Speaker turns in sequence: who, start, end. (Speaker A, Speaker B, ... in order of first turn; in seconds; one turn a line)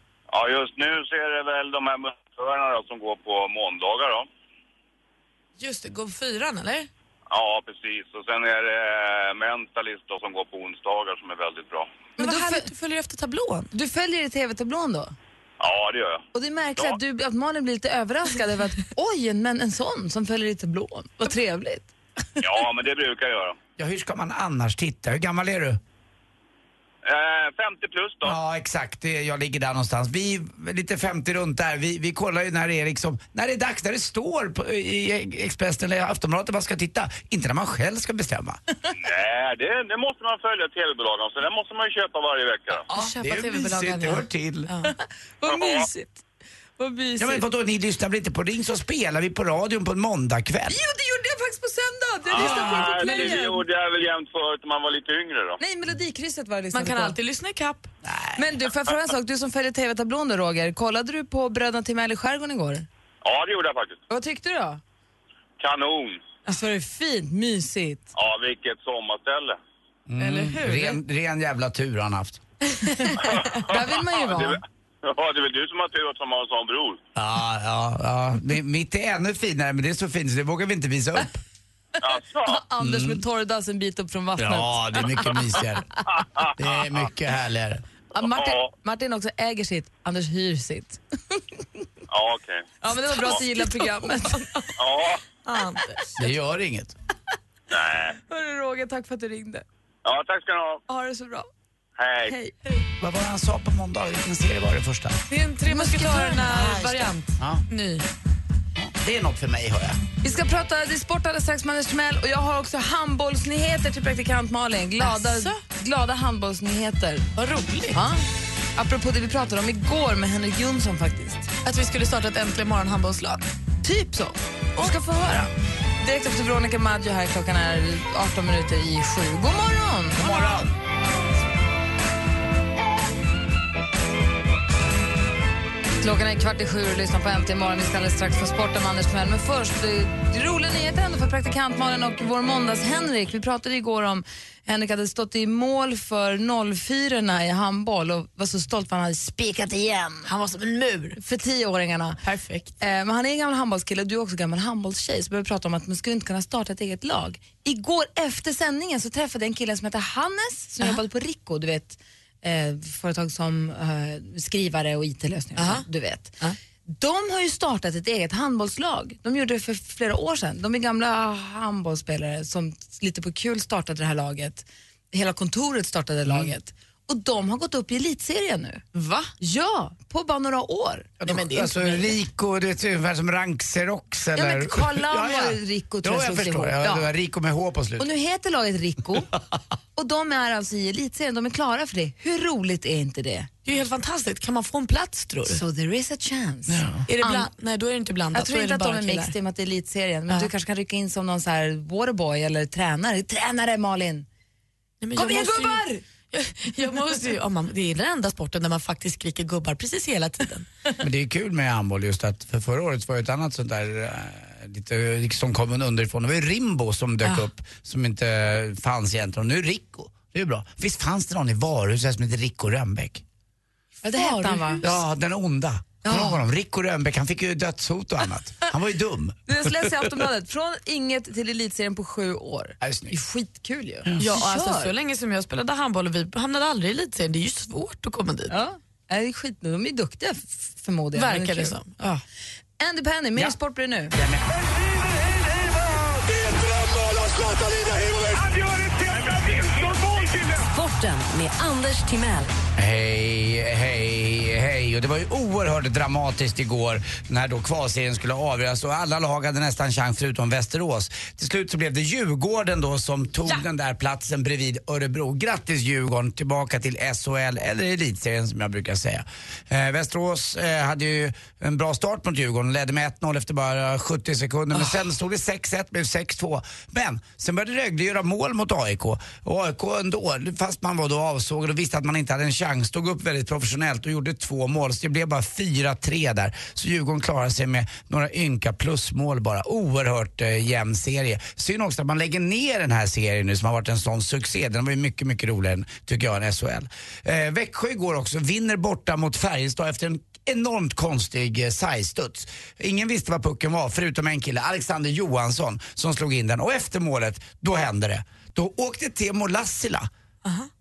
Speaker A: 0.3-4.3
Speaker B: 5.6-6.9
Speaker A: 7.3-11.9
Speaker C: 12.2-12.7
Speaker B: 12.2-13.7
Speaker C: 13.7-15.1
Speaker A: 15.6-16.2
Speaker C: 16.3-21.9
Speaker A: 22.4-23.6
Speaker D: 23.8-25.8
Speaker A: 27.0-28.3
Speaker D: 28.2-38.6
Speaker A: 39.0-42.8
Speaker B: 42.9-44.9
Speaker D: 43.2-44.7
Speaker C: 45.4-46.2
Speaker A: 45.5-45.9
Speaker C: 46.8-47.4
Speaker D: 47.2-50.8
Speaker C: 50.7-53.6
Speaker A: 52.3-55.6
Speaker B: 52.4-53.4
Speaker C: 55.6-57.2
Speaker B: 56.7-57.9
Speaker D: 58.0-58.5
Speaker C: 58.3-62.9
Speaker A: 63.2-64.0
Speaker C: 64.1-64.8
Speaker A: 65.6-66.2
Speaker C: 66.5-68.1
Speaker A: 68.1-69.6
Speaker D: 70.1-72.4
Speaker B: 70.2-71.0
Speaker C: 73.1-74.6
Speaker A: 73.2-77.0
Speaker D: 77.2-81.4
Speaker A: 82.0-82.6
Speaker C: 82.5-85.4
Speaker D: 82.8-83.2
Speaker D: 84.4-85.9
Speaker D: 86.5-87.8
Speaker C: 88.1-91.4
Speaker A: 88.2-88.7
Speaker A: 92.1-92.7
Speaker C: 92.8-94.7
Speaker B: 93.0-94.7
Speaker A: 94.8-95.2
Speaker B: 95.5-96.1
Speaker D: 96.2-96.9
Speaker A: 97.7-98.2
Speaker C: 98.3-99.6
Speaker A: 100.0-100.8
Speaker C: 100.9-101.5
Speaker A: 102.0-102.4
Speaker C: 102.2-102.8
Speaker D: 103.0-105.2
Speaker B: 105.3-108.1
Speaker C: 105.7-107.1
Speaker D: 107.1-107.6
Speaker D: 108.8-110.0
Speaker C: 110.2-117.3
Speaker B: 115.0-115.6
Speaker B: 117.3-118.1
Speaker C: 117.9-121.5
Speaker B: 121.6-123.4
Speaker C: 123.8-125.5
Speaker B: 124.8-125.4
Speaker C: 126.0-130.6
Speaker D: 130.2-130.7
Speaker C: 136.0-150.3
Speaker B: 150.2-151.2
Speaker C: 151.2-152.2
Speaker B: 152.2-152.7
Speaker C: 152.8-178.8
Speaker B: 165.6-165.9
Speaker D: 176.2-176.5
Speaker B: 178.9-179.3
Speaker C: 179.4-181.2
Speaker D: 181.2-188.1
Speaker B: 181.2-182.2
Speaker C: 184.3-187.1
Speaker C: 188.0-189.3
Speaker C: 189.9-193.5
Speaker B: 193.6-195.6
Speaker C: 195.4-197.5
Speaker D: 196.7-197.0
Speaker B: 197.1-199.3
Speaker C: 198.3-204.2
Speaker B: 205.0-210.7
Speaker C: 205.2-206.0
Speaker D: 211.0-223.2
Speaker C: 224.0-224.8
Speaker B: 224.0-224.9
Speaker D: 224.8-229.4
Speaker C: 226.1-226.4
Speaker C: 229.5-234.9
Speaker D: 232.8-233.2
Speaker B: 234.2-238.5
Speaker C: 238.5-241.8
Speaker B: 241.1-242.2
Speaker C: 242.8-244.1
Speaker D: 244.1-244.6
Speaker A: 249.4-250.1
Speaker E: 250.4-252.5
Speaker D: 252.8-310.1
Speaker B: 310.4-310.7